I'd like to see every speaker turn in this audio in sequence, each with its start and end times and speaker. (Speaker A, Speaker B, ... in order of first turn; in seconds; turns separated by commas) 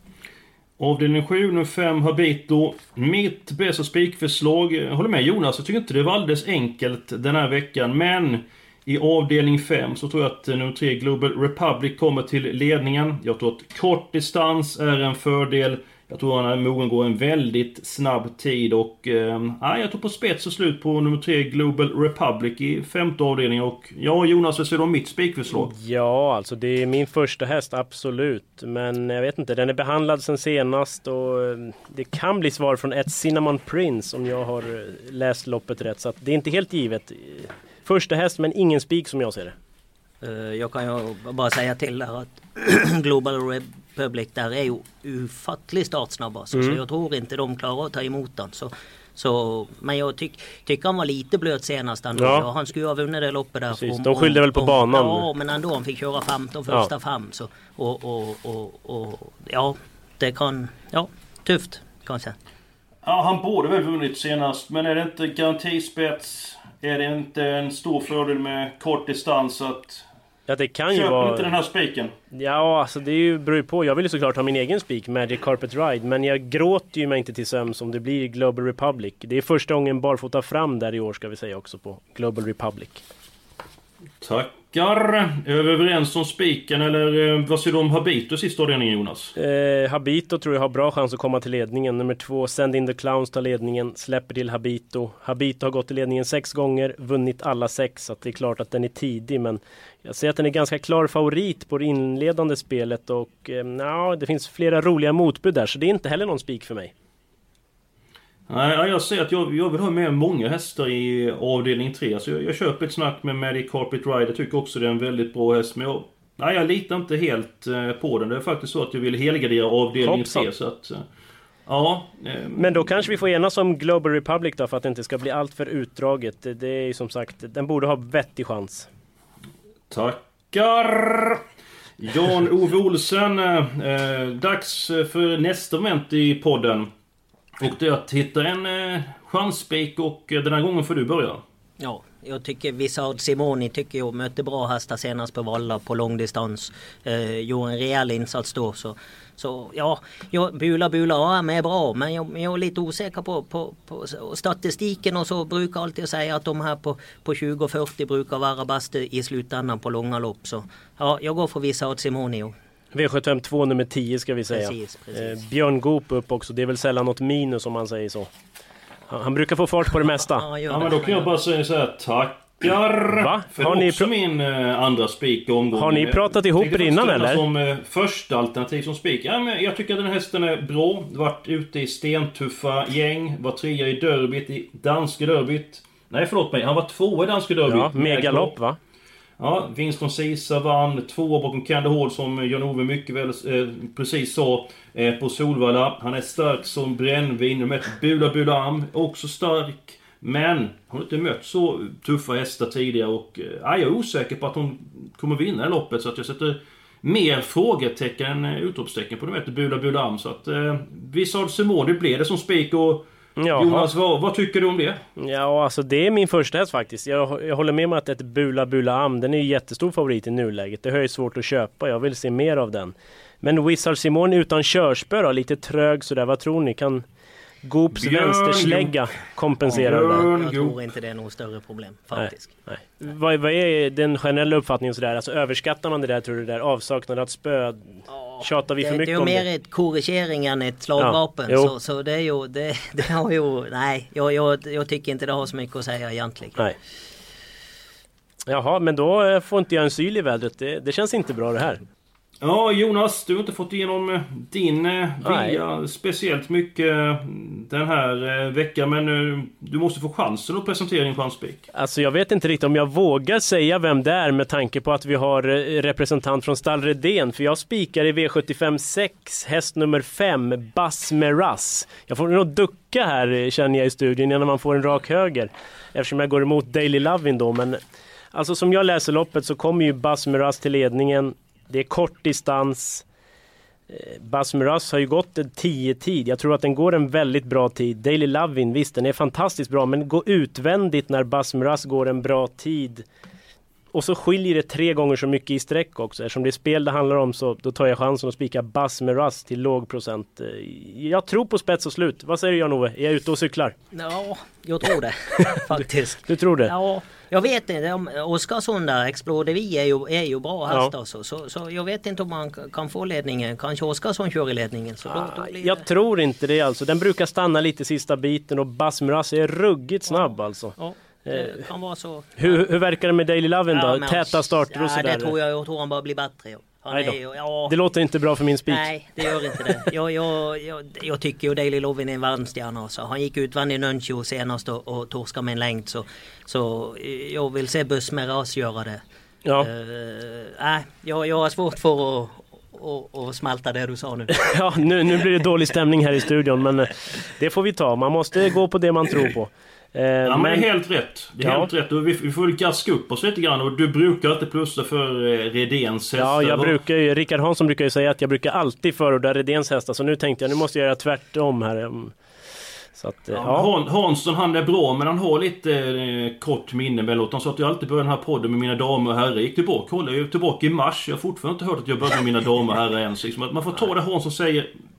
Speaker A: 0.8-25.7, Speaker B: 25.5-39.5, Speaker C: 40.2-62.4, Speaker B: 52.2-52.5, Speaker B: 53.7-55.3, Speaker A: 63.0-70.1, Speaker B: 70.5-71.5, Speaker A: 70.9-72.1, Speaker B: 72.3-83.0, Speaker A: 84.2-89.3, Speaker B: 89.4-106.9, Speaker A: 108.5-121.0, Speaker B: 120.0-120.5, Speaker A: 121.7-122.9, Speaker B: 122.5-128.9, Speaker A: 129.9-131.4, Speaker A: 132.0-136.9, Speaker A: 137.6-141.4, Speaker C: 141.8-162.5, Speaker B: 162.9-168.3, Speaker C: 164.5-165.4, Speaker B: 169.1-170.5, Speaker C: 170.0-171.3, Speaker A: 170.7-188.5, Speaker B: 173.1-174.1, Speaker B: 175.8-177.4, Speaker B: 187.7-188.8, Speaker A: 189.4-215.0, Speaker B: 213.4-213.9, Speaker B: 215.2-227.1, Speaker B: 227.6-230.3, Speaker A: 227.9-229.0, Speaker A: 229.6-230.8, Speaker C: 229.7-232.5, Speaker B: 232.2-239.5, Speaker C: 238.1-246.6, Speaker B: 241.0-241.7, Speaker B: 248.5-251.8, Speaker A: 252.4-261.7, Speaker B: 255.2-255.6, Speaker B: 261.7-277.8, Speaker B: 278.3-283.1, Speaker B: 283.9-293.1, Speaker B: 293.9-303.8, Speaker C: 303.9-315.9, Speaker B: 306.2-306.7, Speaker B: 315.1-321.7, Speaker C: 320.2-322.6, Speaker B: 322.4-325.3, Speaker C: 323.7-327.8, Speaker B: 326.9-329.6, Speaker C: 328.7-339.0, Speaker C: 339.6-344.4, Speaker B: 344.4-350.7, Speaker A: 350.2-356.8, Speaker B: 351.4-351.7, Speaker B: 356.2-362.1, Speaker B: 362.9-363.7, Speaker A: 363.3-374.7